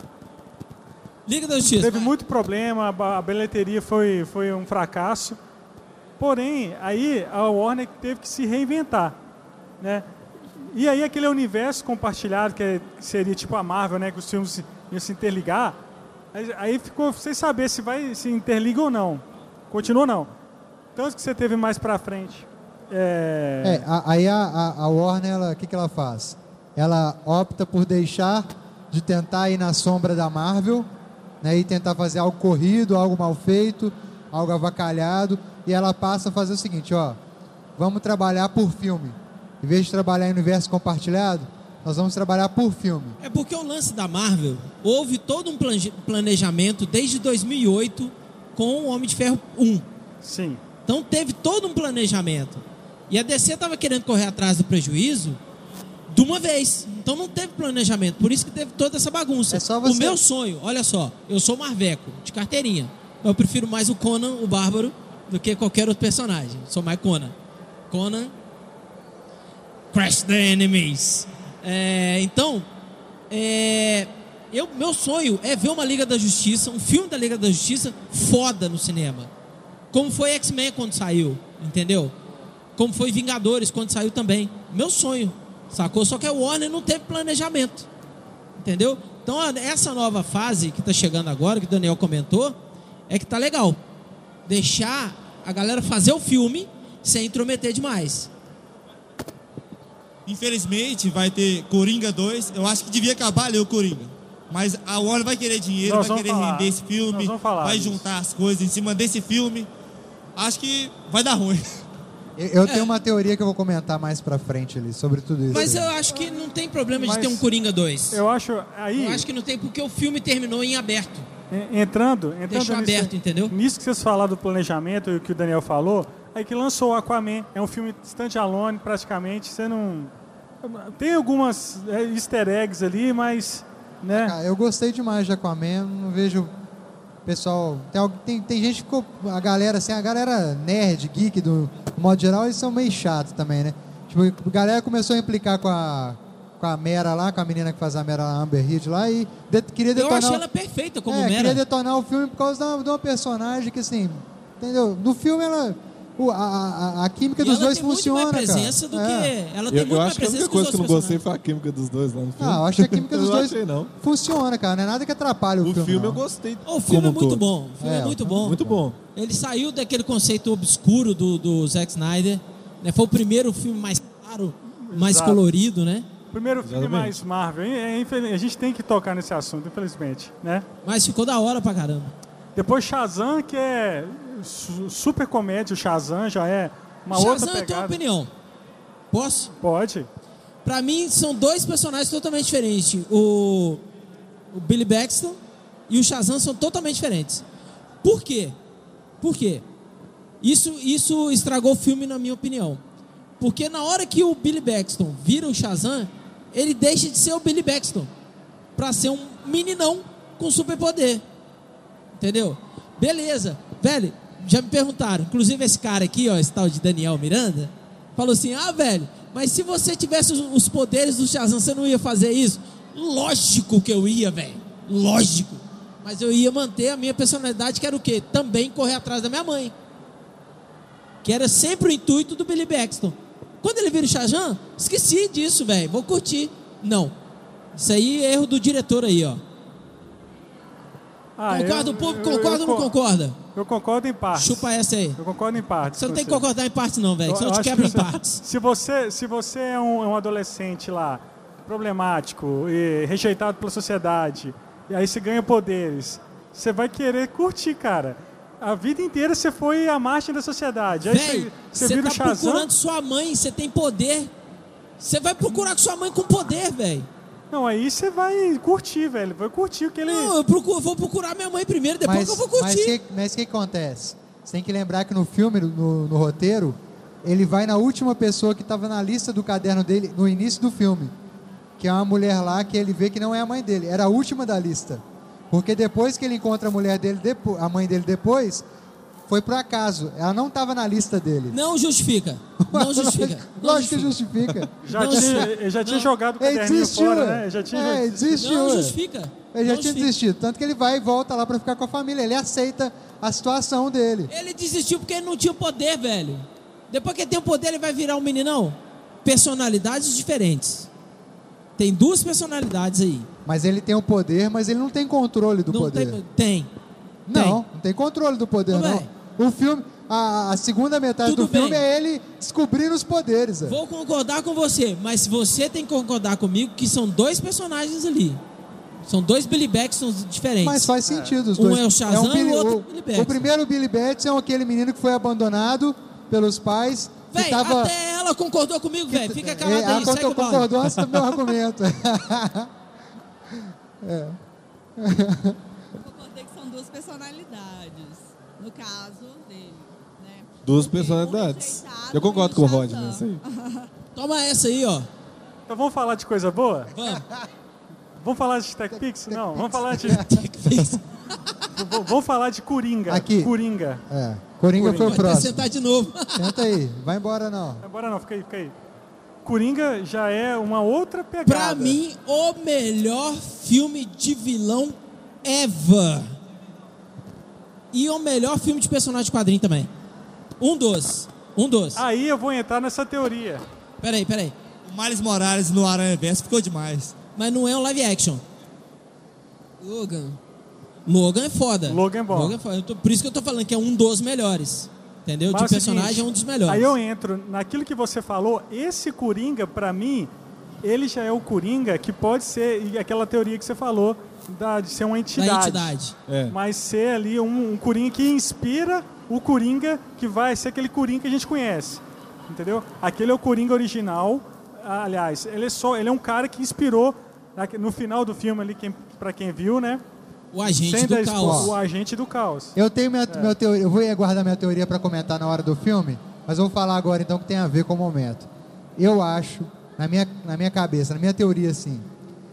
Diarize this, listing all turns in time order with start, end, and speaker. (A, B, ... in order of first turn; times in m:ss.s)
0:01.2-0:02.1 A
0:01.6-0:05.4 B
0:06.2-0:09.2 B
0:09.8-0:10.0 B
0:10.7-0:15.8 B
0:16.3-0:20.3 B
0:21.0-0:23.8 B
0:23.6-0:30.9 C
0:31.4-0:37.2 C
0:37.8-0:43.2 C
0:43.2-0:49.8 A
0:50.2-0:50.6 B
0:50.8-0:55.4 A
0:56.1-1:07.3 A
0:59.5-1:00.2 C
1:07.9-1:08.3 A
1:09.9-1:12.7 A
1:13.3-1:19.3 A
1:19.9-1:22.1 A
1:22.8-1:27.9 A
1:28.6-1:32.6 A
1:33.1-1:33.8 A
1:34.5-1:38.3 A
1:40.2-1:49.7 D
1:45.8-1:48.0 B
1:50.4-1:51.8 D
1:52.4-1:55.9 C
1:52.6-1:52.9 A
1:55.5-1:58.2 A
1:57.0-1:57.4 B
1:58.1-1:59.2 B
1:59.0-2:01.3 A
2:01.5-2:10.1 B
2:02.5-2:03.5 A
2:10.6-2:14.3 B
2:14.1-2:16.5 C
2:17.2-2:30.4 C
2:29.9-2:31.6 A
2:31.1-2:39.3 C
2:37.4-2:41.2 A
2:39.7-2:43.9 E
2:42.4-2:46.2 C
2:45.6-2:47.4 E
2:46.6-2:48.6 A
2:47.8-2:48.8 C
2:48.4-2:49.0 E
2:49.1-2:56.1 A
2:54.8-2:55.4 B
2:56.3-3:00.6 B
2:56.6-2:57.2 E
3:00.8-3:02.1 A
3:02.6-3:08.0 B
3:07.1-3:08.3 A
3:09.1-3:09.5 A
3:09.6-3:10.1 B
3:10.6-3:13.8 A
3:14.5-3:17.4 A
3:18.0-3:18.6 A
3:19.2-3:19.6 A
3:20.4-3:22.8 A
3:23.4-3:28.1 A
3:28.8-3:31.2 A
3:32.2-3:49.7 A
3:51.2-3:57.1 A
3:57.7-3:59.4 A
4:01.4-4:02.9 B
4:01.5-4:03.4 A
4:03.5-4:06.4 B
4:04.3-4:05.2 A
4:05.9-4:08.4 A
4:07.2-4:22.7 B
4:21.0-4:24.3 A
4:25.0-4:27.1 A
4:27.5-4:30.3 B
4:30.0-4:33.0 A
4:32.0-4:41.1 C
4:41.8-4:48.6 C
4:49.3-4:51.6 C
4:51.5-4:54.2 A
4:52.6-4:55.5 C
4:54.8-4:58.3 B
4:54.9-4:56.1 A
4:56.4-4:59.0 C
4:58.3-5:00.1 A
4:59.5-5:04.3 C
5:04.3-5:10.9 A
5:11.8-5:13.3 A
5:13.4-5:16.2 C
5:15.7-5:16.7 A
5:17.3-5:23.8 C
5:17.3-5:17.6 A
5:18.7-5:19.1 A
5:21.2-5:21.8 A
5:23.6-5:28.4 A
5:29.0-5:30.9 A
5:30.6-5:37.9 C
5:31.1-5:31.3 B
5:31.6-5:33.5 A
5:37.3-5:40.8 A
5:39.1-5:42.7 C
5:43.5-5:44.4 C
5:45.0-5:45.6 C
5:45.9-5:53.9 F
5:50.6-5:53.4 E
5:54.1-5:55.1 A
5:55.7-5:56.9 B
5:56.9-5:57.2 A
5:57.1-5:57.4 C
5:58.2-6:00.2 B
5:58.9-6:00.4 C
6:00.0-6:01.0 A
6:01.7-6:04.0 B
6:03.1-6:03.5 C
6:04.1-6:05.7 C
6:04.8-6:05.3 B
6:04.8-6:06.7 A
6:06.3-6:07.8 C
6:07.8-6:08.7 B
6:09.4-6:12.0 B
6:11.4-6:16.3 A
6:17.9-6:19.9 A
6:20.6-6:22.0 A
6:22.0-6:23.6 B
6:24.0-6:24.5 A
6:24.8-6:27.1 D
6:27.4-6:28.4 A
6:29.8-6:30.4 A
6:31.0-6:36.9 A
6:31.9-6:32.6 B
6:35.5-6:40.3 B
6:40.8-6:45.9 B
6:45.4-6:46.1 A
6:46.3-6:46.6 E
6:46.5-7:00.0 B
7:00.5-7:01.7 A
7:00.6-7:02.8 B
7:01.4-7:01.7 C
7:02.8-7:12.1 C
7:03.3-7:03.5 B